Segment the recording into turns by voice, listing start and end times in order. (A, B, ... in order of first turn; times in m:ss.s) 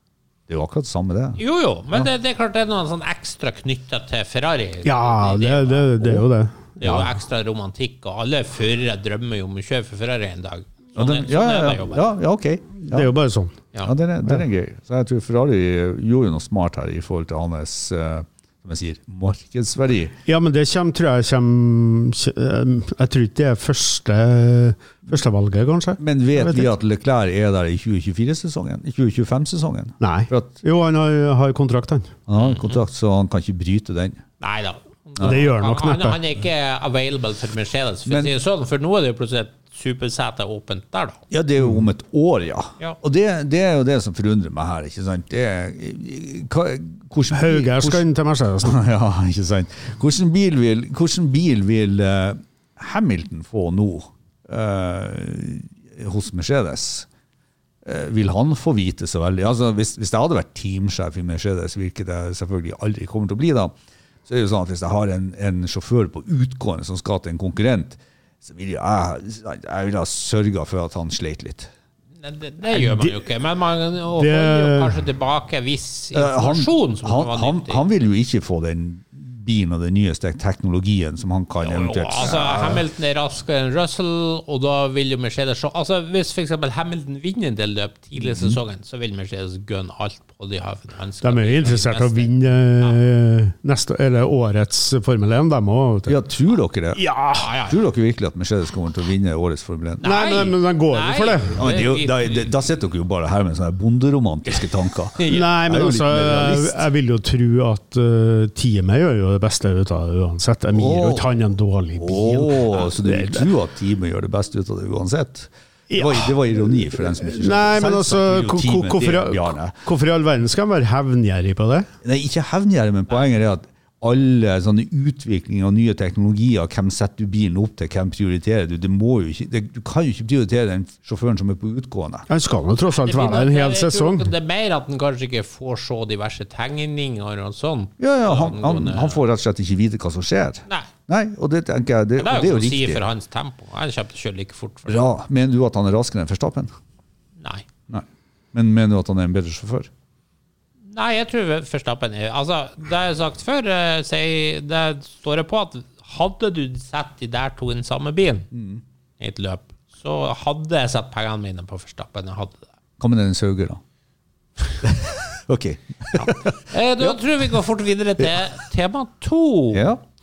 0:00.5-0:01.4 A
0:01.4-0:06.2 B
0:04.8-0:07.1 C
0:06.8-0:12.0 B
0:11.0-0:13.1 A
0:12.8-0:13.6 C
0:13.8-0:20.2 A
0:20.3-0:26.7 C
0:26.0-0:30.6 A
0:30.0-0:32.1 C
0:32.3-0:34.2 A
0:32.4-0:32.8 B
0:34.4-0:41.2 B
0:35.2-0:36.2 C
0:38.1-0:38.3 A
0:41.3-0:48.0 A
0:47.3-0:48.8 C
0:48.6-0:57.1 A
0:57.8-1:03.7 A
1:04.3-1:11.7 A
1:12.2-1:17.8 B
1:12.8-1:13.1 C
1:14.2-1:15.0 C
1:16.1-1:22.8 A
1:21.6-1:33.0 B
1:28.2-1:28.6 A
1:31.2-1:36.2 C
1:36.1-1:37.0 A
1:37.0-1:37.5 C
1:37.4-1:37.8 B
1:37.7-1:40.0 A
1:40.0-1:42.5 B
1:40.0-1:41.6 C
1:41.6-1:46.9 A
1:45.2-1:45.5 B
1:45.3-1:53.5 C
1:50.7-1:51.3 A
1:52.0-1:59.8 A
1:55.9-2:01.9 C
2:02.0-2:12.3 A
2:12.3-2:14.3 C
2:12.9-2:19.2 B
2:18.0-2:23.0 A
2:22.2-2:25.0 B
2:24.9-2:26.7 A
2:27.4-2:27.6 B
2:27.9-2:29.9 A
2:30.9-2:38.5 B
2:38.5-2:38.8 A
2:39.2-2:42.6 B
2:43.0-2:43.8 A
2:44.8-2:47.2 A
2:46.1-2:49.9 B
2:49.7-2:50.0 A